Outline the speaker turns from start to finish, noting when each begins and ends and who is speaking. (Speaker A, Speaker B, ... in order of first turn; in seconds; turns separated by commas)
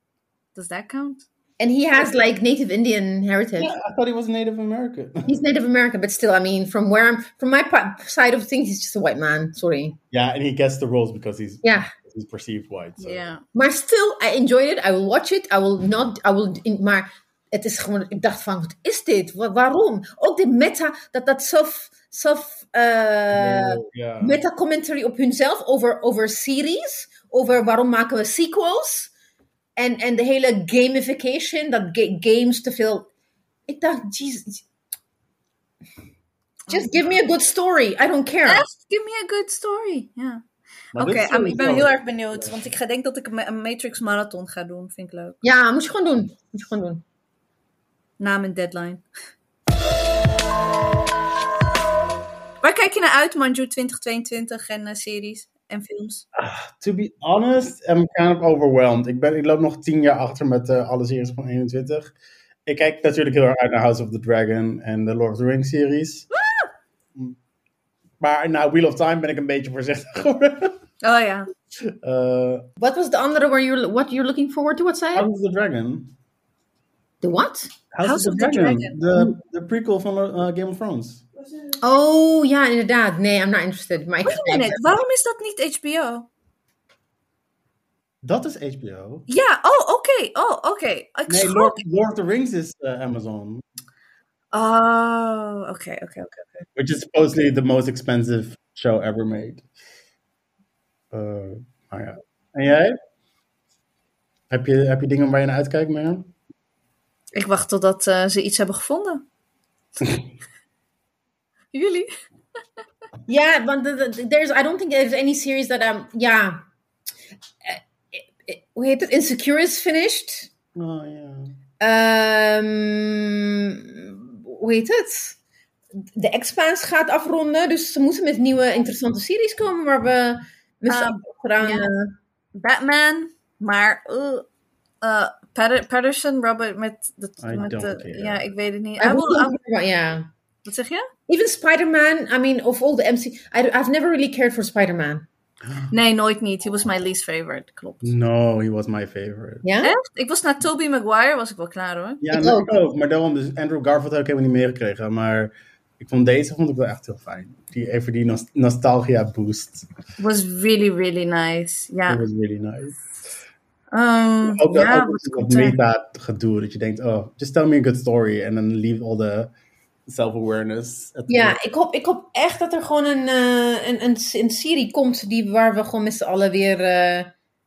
Speaker A: 0.6-1.2, Speaker B: 1.6-3.7, Speaker C: 3.6-5.3, Speaker B: 5.2-10.0, Speaker C: 10.1-13.2, Speaker B: 11.6-11.9, Speaker A: 13.0-13.4, Speaker B: 13.5-29.1, Speaker C: 23.3-24.4, Speaker B: 29.8-33.1, Speaker B: 33.7-34.6, Speaker B: 36.7-38.7, Speaker A: 38.5-40.4, Speaker C: 41.0-42.6, Speaker A: 41.0-45.4, Speaker B: 45.4-47.0, Speaker A: 48.2-49.0, Speaker A: 52.6-56.2, Speaker C: 56.4-62.1, Speaker C: 62.7-66.3, Speaker A: 66.4-66.7, Speaker C: 68.2-70.8, Speaker A: 71.0-71.5, Speaker C: 71.9-72.6, Speaker B: 72.8-75.3, Speaker C: 75.1-76.1, Speaker B: 77.2-77.7, Speaker C: 77.9-81.2, Speaker A: 78.0-79.0, Speaker B: 81.8-84.8, Speaker A: 84.2-86.3, Speaker C: 88.2-89.3, Speaker A: 89.3-91.8, Speaker C: 91.3-93.6, Speaker A: 94.5-96.7, Speaker C: 96.8-99.7, Speaker C: 101.1-103.0, Speaker C: 104.5-106.3, Speaker A: 107.3-109.2, Speaker A: 111.7-112.1, Speaker B: 113.3-116.6, Speaker B: 117.7-120.5, Speaker C: 120.8-121.5, Speaker B: 121.8-125.4, Speaker B: 126.2-132.1, Speaker A: 130.9-131.9, Speaker A: 132.6-134.5, Speaker A: 135.0-139.6, Speaker C: 137.4-138.4, Speaker B: 139.0-140.3, Speaker A: 140.7-141.1, Speaker B: 141.3-145.3, Speaker C: 145.6-145.9, Speaker A: 145.9-148.1, Speaker C: 148.0-149.7, Speaker B: 149.6-149.9, Speaker A: 149.8-152.2, Speaker C: 152.2-159.9, Speaker B: 152.3-152.7, Speaker A: 160.2-162.2, Speaker C: 162.1-163.1, Speaker A: 163.9-165.8, Speaker C: 164.4-169.5, Speaker C: 170.1-171.6, Speaker B: 171.3-177.3